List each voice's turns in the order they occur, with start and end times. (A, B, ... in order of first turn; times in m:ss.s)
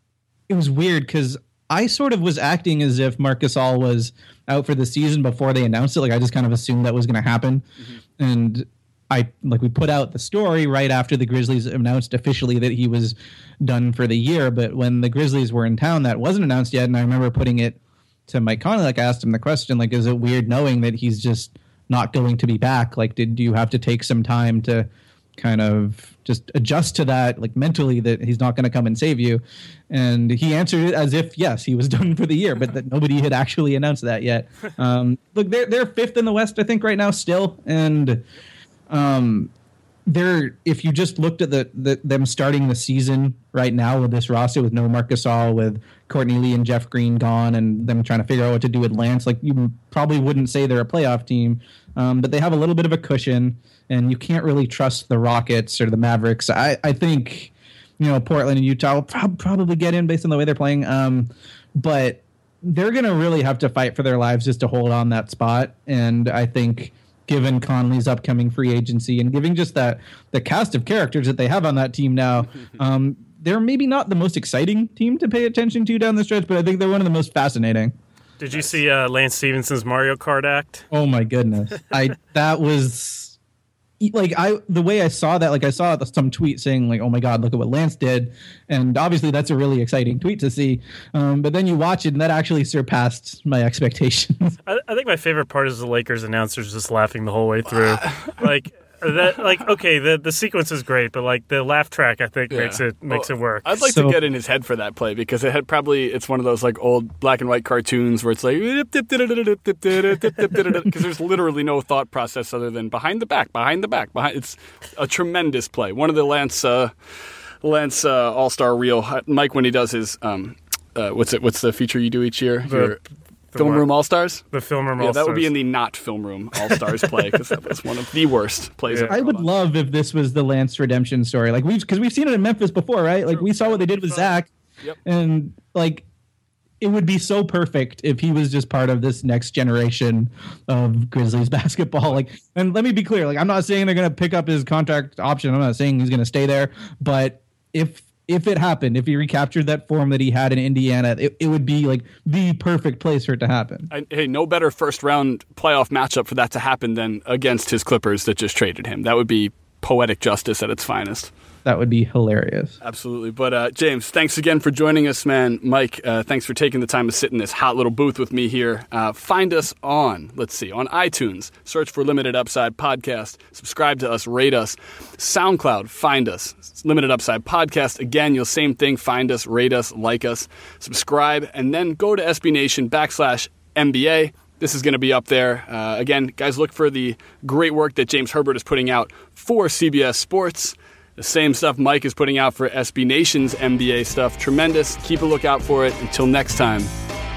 0:00.5-0:07.6 A
0:08.2-0:38.2 A
0:38.9-0:39.5 A
0:40.0-1:17.9 A
1:18.4-1:20.8 B
1:20.9-1:23.4 A
1:24.0-1:34.6 A
1:34.6-1:43.6 B
1:37.9-1:38.4 C
1:42.5-1:56.9 C
1:43.8-1:44.2 A
1:57.6-2:03.0 C
2:02.7-2:03.0 B
2:03.5-2:03.8 B
2:03.6-2:04.4 C
2:04.5-2:05.5 B
2:05.0-2:09.5 C
2:08.9-2:09.1 B
2:09.1-2:14.5 A
2:13.3-2:14.3 B
2:15.0-2:16.0 A
2:16.8-2:33.9 A
2:33.9-2:41.3 C
2:41.6-2:42.8 A
2:42.8-3:16.9 C